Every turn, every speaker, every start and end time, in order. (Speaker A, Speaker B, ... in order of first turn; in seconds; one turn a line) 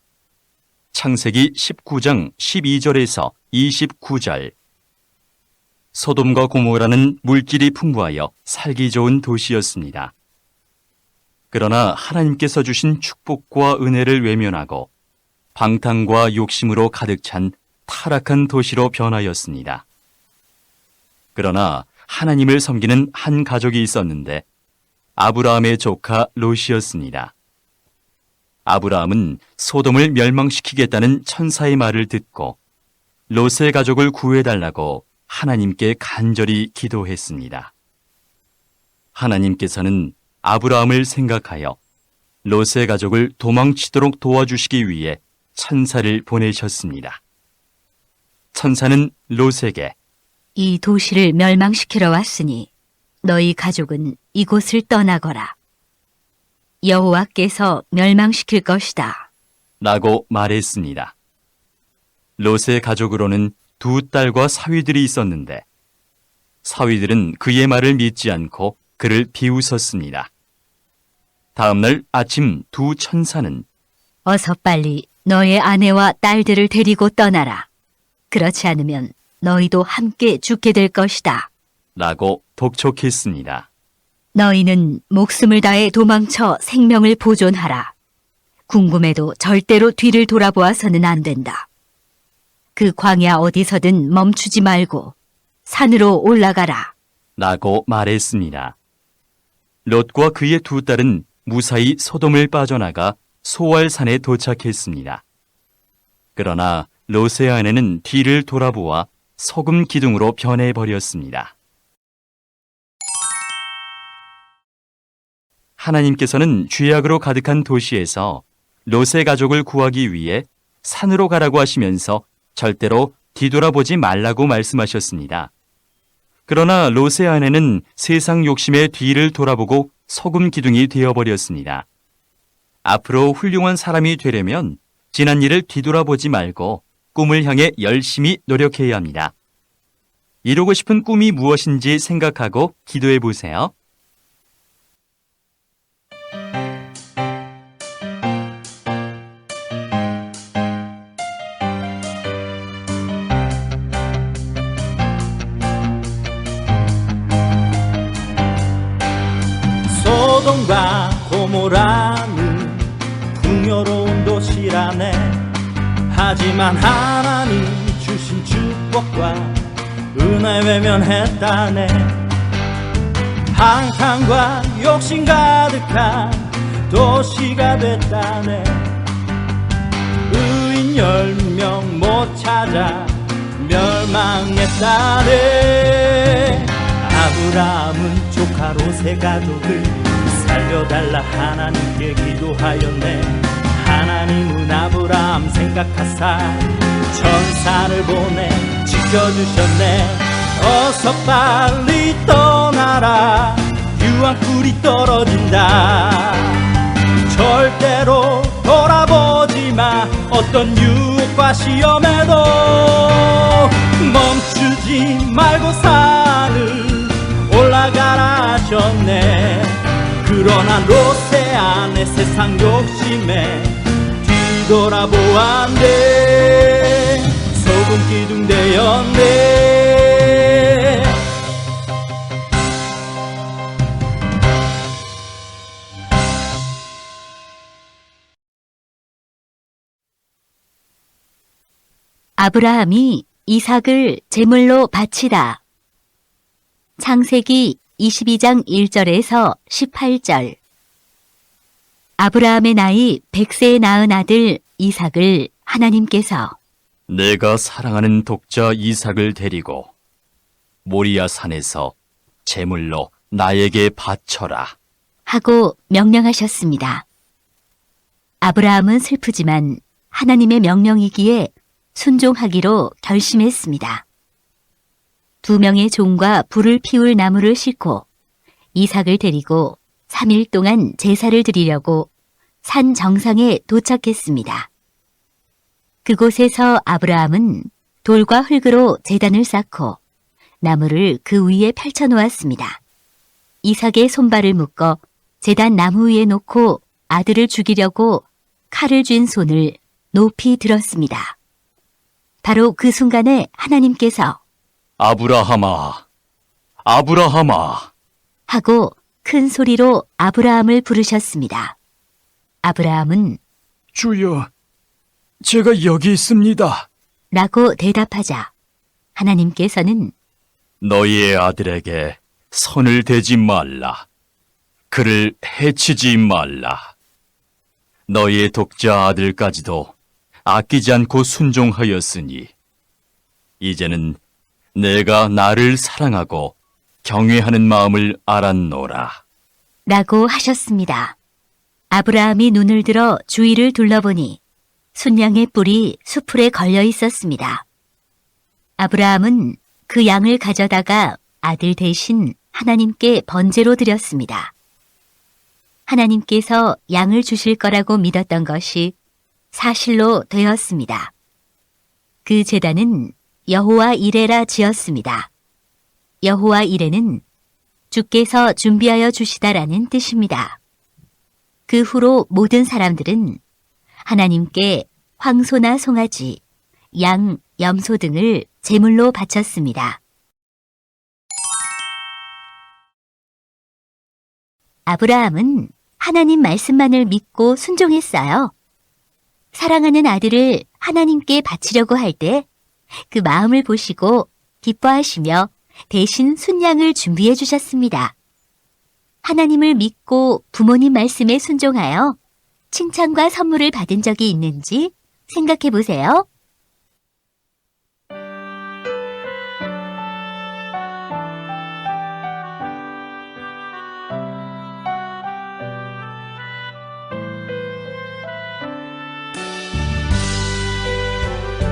Speaker A: 0.9-4.5
Speaker A: 5.9-10.1
Speaker A: 11.5-14.9
Speaker A: 15.5-19.8
Speaker A: 21.3-24.4
Speaker A: 25.2-27.3
Speaker A: 28.6-32.6
Speaker A: 33.3-37.7
Speaker A: 39.1-41.8
Speaker A: 42.4-47.2
Speaker A: 48.5-49.9
Speaker B: 50.5-52.7
Speaker B: 53.2-55.5
Speaker B: 56.8-59.3
Speaker A: 59.8-61.1
Speaker A: 62.4-65.7
Speaker A: 66.6-70.3
Speaker A: 71.5-73.7
Speaker B: 74.2-77.7
Speaker B: 78.3-81.5
Speaker A: 82.0-83.7
Speaker B: 84.3-87.9
Speaker B: 88.7-91.7
Speaker B: 92.7-96.9
Speaker A: 97.4-98.8
Speaker A: 99.8-105.2
Speaker A: 106.3-111.5
Speaker A: 115.8-125.5
Speaker A: 126.5-131.8
Speaker A: 132.8-139.3
Speaker A: 140.4-143.7
Speaker C: 159.9-165.5
Speaker C: 166.1-172.2
Speaker C: 173.5-179.0
Speaker C: 180.3-206.7
Speaker C: 207.2-231.2
Speaker B: 242.4-245.6
Speaker B: 247.0-250.6
Speaker B: 252.2-256.6
Speaker A: 257.1-259.9
Speaker A: 260.8-264.8
Speaker B: 265.3-267.0
Speaker B: 268.4-274.0
Speaker B: 275.4-278.1
Speaker B: 278.7-282.1
Speaker B: 282.6-284.7
Speaker B: 286.0-290.0
Speaker B: 290.6-292.8
Speaker B: 293.6-301.4
Speaker B: 302.4-304.4
Speaker A: 305.0-306.1
Speaker A: 306.8-307.9
Speaker B: 308.5-311.8
Speaker B: 312.6-313.4
Speaker A: 313.9-314.5
Speaker A: 315.4-316.9
Speaker B: 317.3-318.5
Speaker B: 319.1-320.1
Speaker A: 320.8-324.1
Speaker A: 324.9-326.9
Speaker A: 328.1-329.9
Speaker A: 330.4-332.5
Speaker A: 333.6-334.2
Speaker A: 334.7-339.2
Speaker B: 339.9-341.1
Speaker B: 341.9-344.4
Speaker B: 344.9-347.6
Speaker B: 348.8-354.5
Speaker B: 355.9-358.9
Speaker B: 359.5-361.1
Speaker B: 362.2-365.3
Speaker B: 366.2-367.2
Speaker B: 367.9-370.6
Speaker B: 371.7-373.4
Speaker B: 374.0-376.4
Speaker B: 376.9-380.0
Speaker B: 384.9-388.5
Speaker B: 389.5-392.5
Speaker B: 393.1-398.1
Speaker B: 399.2-402.2
Speaker B: 402.7-406.3